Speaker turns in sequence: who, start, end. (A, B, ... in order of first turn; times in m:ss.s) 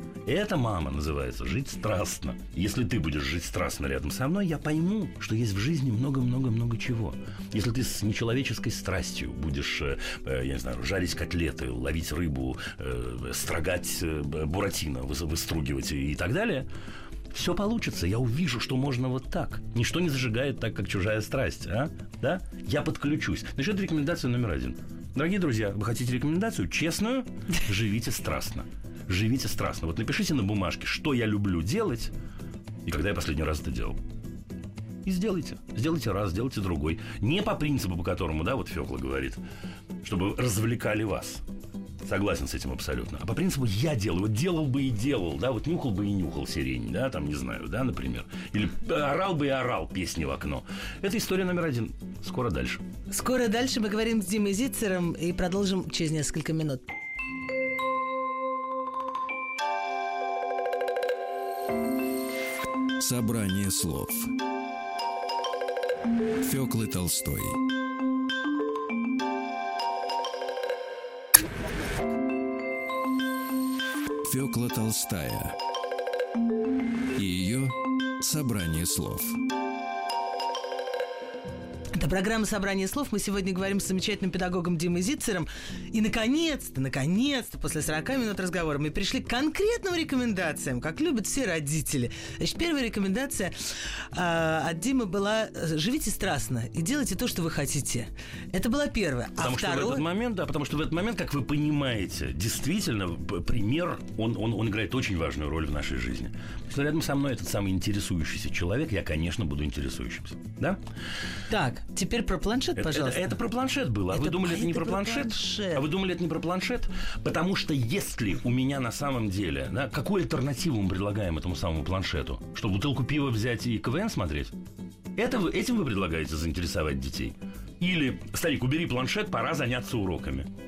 0:00.3-0:16.7 A
0:17.3-0:32.1 A
0:32.8-0:34.0 A
0:35.0-0:39.4 A
0:40.0-0:41.4 A
0:42.0-0:52.8 A
0:53.1-0:56.8 B
1:03.0-1:04.3 C
1:06.4-1:07.6 C
1:14.2-1:15.6 C
1:17.2-1:19.4 C
1:22.0-1:40.0 B
1:39.4-1:50.8 A
1:51.5-1:53.4 B
1:52.8-2:04.6 A
1:54.1-1:55.8 B
2:05.2-2:10.5 A